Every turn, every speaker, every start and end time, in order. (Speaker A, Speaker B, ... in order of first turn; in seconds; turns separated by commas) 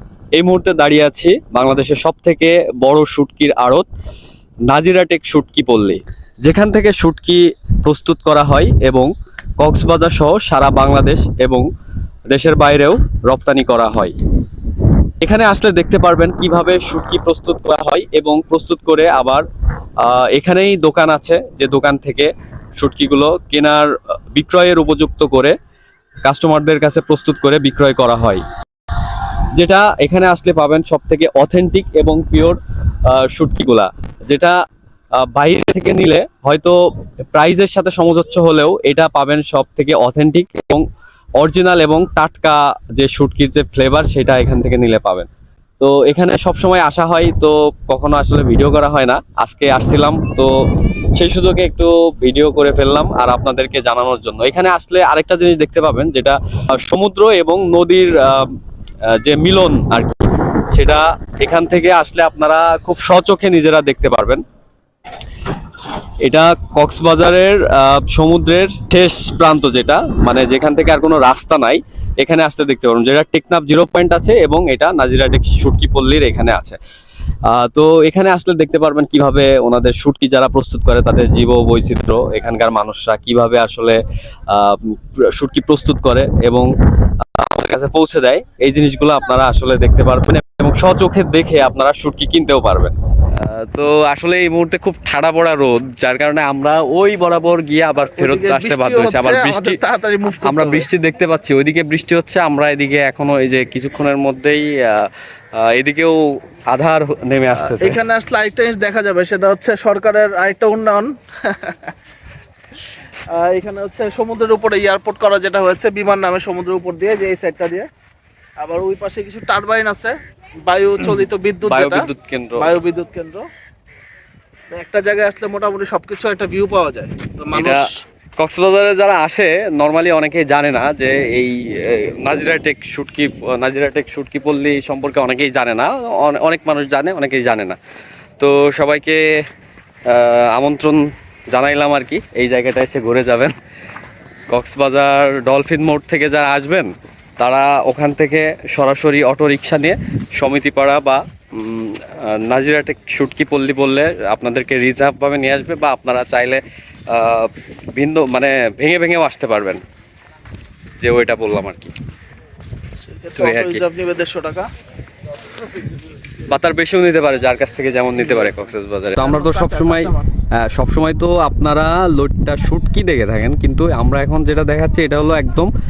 Speaker A: 0.3-3.9, Speaker A: 4.7-11.7, Speaker A: 12.3-14.2, Speaker A: 15.2-19.4, Speaker A: 20.0-25.6, Speaker A: 26.2-28.4, Speaker A: 29.0-34.6, Speaker A: 35.2-36.8, Speaker A: 37.3-40.9, Speaker A: 41.4-45.3, Speaker A: 45.8-50.5, Speaker A: 51.2-58.6, Speaker A: 59.1-64.4, Speaker A: 66.2-76.8, Speaker A: 77.5-99.8, Speaker B: 98.2-100.9, Speaker A: 100.4-108.0, Speaker B: 107.8-111.9, Speaker B: 113.3-117.9, Speaker B: 118.6-123.5, Speaker A: 121.7-122.8, Speaker B: 124.7-128.0, Speaker A: 127.5-127.8, Speaker A: 128.4-137.8, Speaker A: 138.4-139.2, Speaker A: 140.1-143.6, Speaker A: 144.5-159.8, Speaker A: 161.0-161.9, Speaker B: 163.0-164.7, Speaker A: 163.4-163.8, Speaker A: 166.5-175.7, Speaker B: 169.2-170.4